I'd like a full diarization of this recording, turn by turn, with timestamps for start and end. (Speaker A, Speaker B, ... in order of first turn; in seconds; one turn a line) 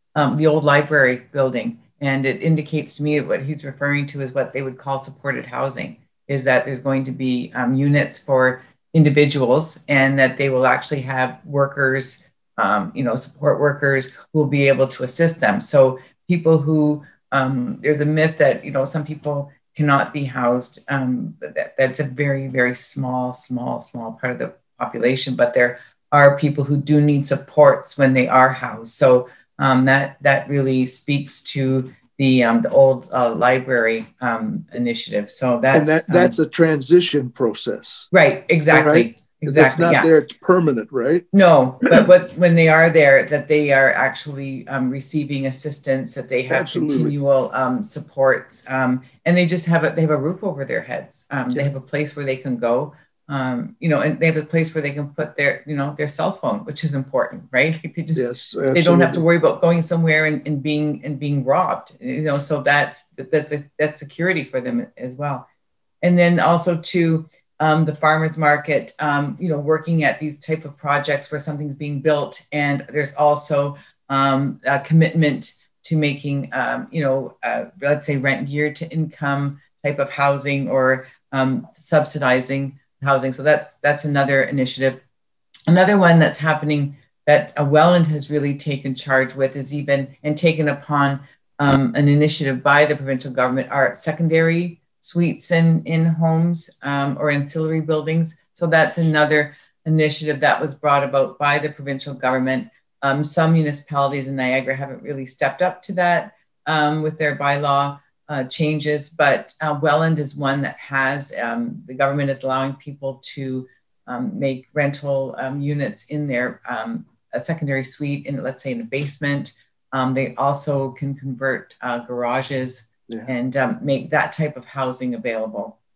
Speaker A: 0.1-36.4
Speaker B: 35.7-38.1
Speaker A: 38.1-40.1
Speaker B: 38.7-41.3
Speaker A: 41.3-65.5
Speaker B: 46.5-47.2
Speaker B: 58.1-59.2
Speaker A: 66.0-85.0
Speaker A: 85.7-125.8